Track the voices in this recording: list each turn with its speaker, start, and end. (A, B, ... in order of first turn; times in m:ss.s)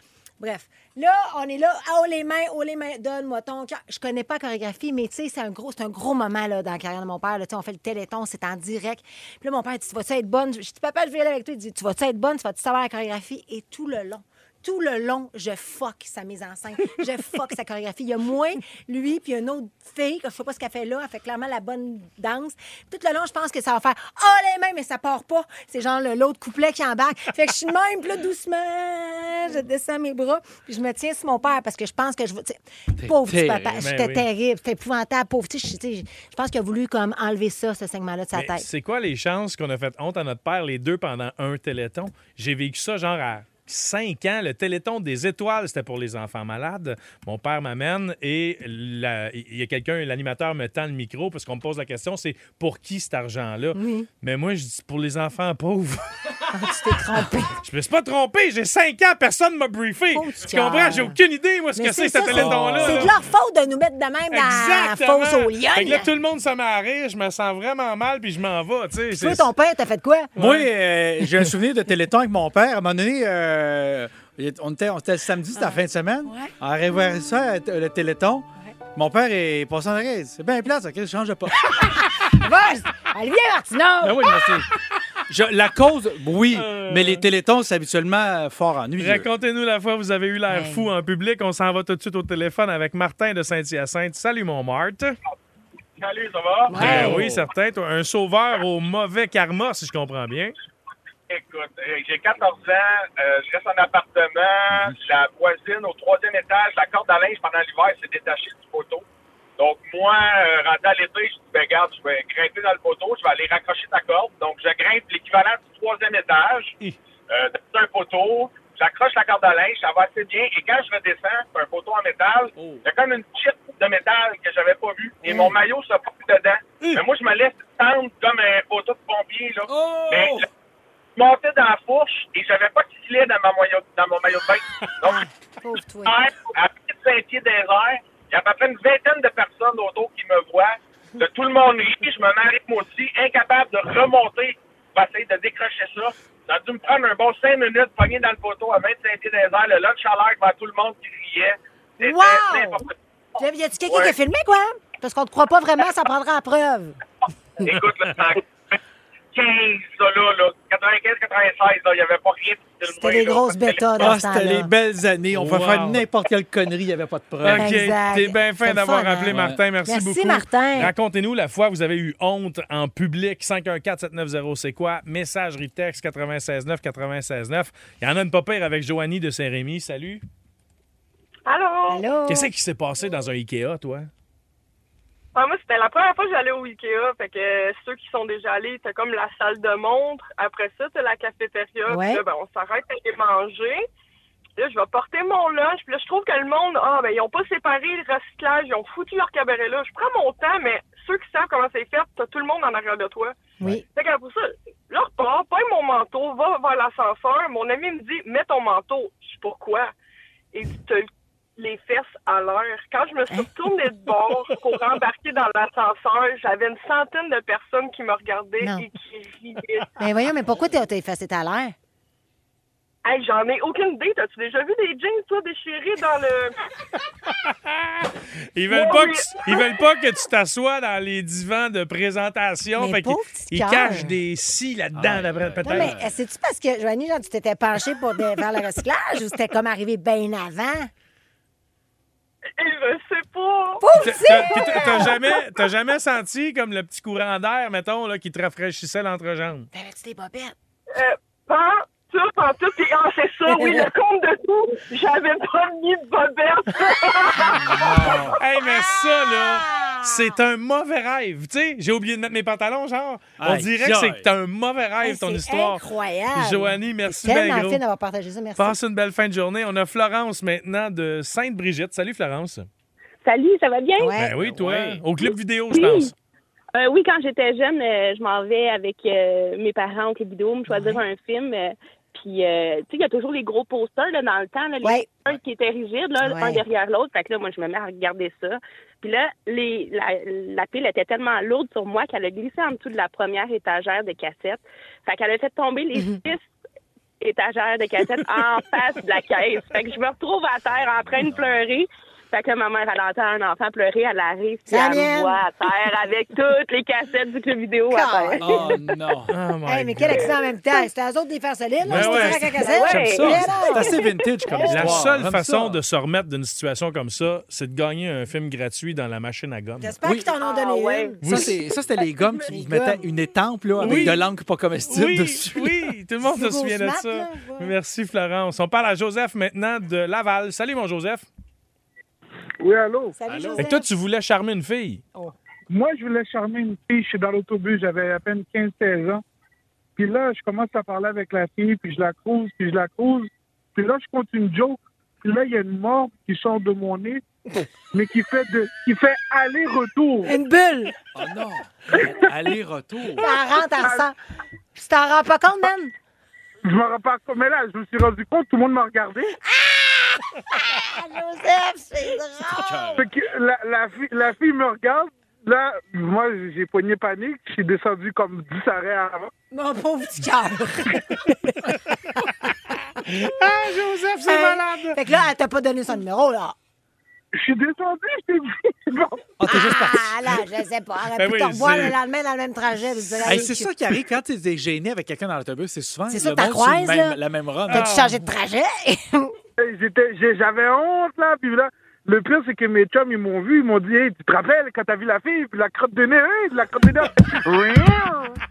0:00.4-0:38.7 A
0:33.0-0:34.1 B
0:33.8-0:34.2 C
0:38.4-0:56.0 C
0:53.8-0:54.1 A
0:56.5-0:57.6 A
0:57.6-1:03.2 C
1:00.1-1:01.2 A
1:01.8-1:06.1 A
1:02.3-1:03.1 B
1:04.3-1:09.5 C
1:09.1-1:10.3 A
1:10.4-1:10.7 C
1:10.4-1:21.9 B
1:15.6-1:16.5 A
1:21.6-1:24.4 A
1:24.0-1:24.7 B
1:25.3-1:29.3 B
1:26.5-1:27.2 C
1:29.0-1:35.2 C
1:30.5-1:30.9 A
1:36.0-1:36.8 D
1:36.7-1:37.2 A
1:36.8-1:37.4 B
1:36.8-1:40.6 C
1:41.3-1:49.0 D
1:44.7-1:45.0 B
1:49.6-1:56.7 D
1:57.3-2:10.5 D
2:02.6-2:02.8 B
2:09.7-2:10.5 B
2:11.2-2:15.2 D
2:15.0-2:16.2 A
2:16.1-2:33.0 D
2:32.0-2:32.9 A
2:33.4-2:37.0 A
2:33.9-2:34.2 D
2:37.6-2:38.8 D
2:39.3-2:44.1 D
2:42.9-2:44.7 A
2:44.0-2:47.7 B
2:45.3-2:46.0 C
2:47.4-3:00.2 C
2:47.5-2:50.9 A
2:49.3-2:49.6 B
3:01.5-3:02.0 E
3:01.9-3:02.5 A
3:02.3-3:04.1 C
3:05.4-3:13.8 E
3:11.9-3:12.2 A
3:14.6-3:23.4 E
3:23.6-3:23.8 A
3:23.9-3:29.9 E
3:30.5-3:39.9 E
3:38.6-3:38.8 A
3:40.0-3:41.8 A
3:43.0-3:46.6 E
3:47.4-3:56.0 C
3:48.7-3:49.6 E
3:52.8-3:54.2 A
3:55.0-3:56.1 B
3:55.6-4:00.9 A
4:02.6-4:05.4 E
4:03.8-4:05.2 A
4:04.0-4:09.7 C
4:09.7-4:10.6 A
4:10.9-4:18.2 E
4:13.5-4:13.8 A
4:17.7-4:18.0 A
4:17.7-4:18.4 B
4:18.3-4:25.8 C
4:18.6-4:20.3 A
4:23.4-4:24.2 B
4:25.0-4:28.8 A
4:26.4-4:27.8 C
4:28.6-4:32.7 C
4:33.2-4:34.2 F
4:34.0-4:34.3 A
4:34.2-4:36.1 C
4:34.4-4:35.0 B
4:35.7-4:36.1 F
4:36.7-4:56.4 F
4:40.7-4:41.0 A
4:44.8-4:45.1 A
4:46.2-4:46.6 A
4:56.0-4:56.2 A
4:57.2-5:08.7 F
5:00.7-5:01.6 B
5:04.7-5:05.5 A
5:07.9-5:08.7 A
5:08.4-5:09.3 B
5:09.3-5:10.3 C
5:09.7-5:15.0 A
5:11.8-5:15.8 B
5:11.9-5:12.5 C
5:12.5-5:14.0 F
5:14.7-5:20.0 C
5:19.8-5:21.5 A
5:20.0-5:20.3 B
5:20.4-5:21.2 F
5:21.2-5:21.5 C
5:21.2-5:25.8 B
5:22.5-5:23.0 A
5:23.8-5:24.2 C
5:23.8-5:24.1 A
5:24.9-5:31.3 C
5:26.2-5:27.7 A
5:32.6-5:33.2 G
5:33.2-5:33.9 A
5:33.3-5:33.7 B
5:33.6-5:35.0 C
5:35.7-5:39.2 G
5:40.0-5:47.2 G
5:47.9-5:50.3 G
5:50.3-5:51.0 A
5:51.2-5:53.3 B
5:53.2-5:54.2 A
5:53.7-5:54.1 G
5:54.8-5:55.9 A
5:56.7-5:59.4 G
5:59.4-6:03.0 A
6:02.5-6:03.0 B
6:03.0-6:09.3 G
6:09.5-6:12.5 A
6:13.0-6:13.4 A
6:13.1-6:15.0 C
6:14.2-6:16.6 A
6:17.3-6:19.2 G
6:19.4-6:20.4 B
6:19.5-6:23.7 A
6:21.2-6:22.0 C
6:23.2-6:23.5 C
6:23.2-6:27.9 B
6:26.1-6:29.4 A
6:27.7-6:28.2 C
6:29.6-6:38.2 G
6:37.7-6:38.3 A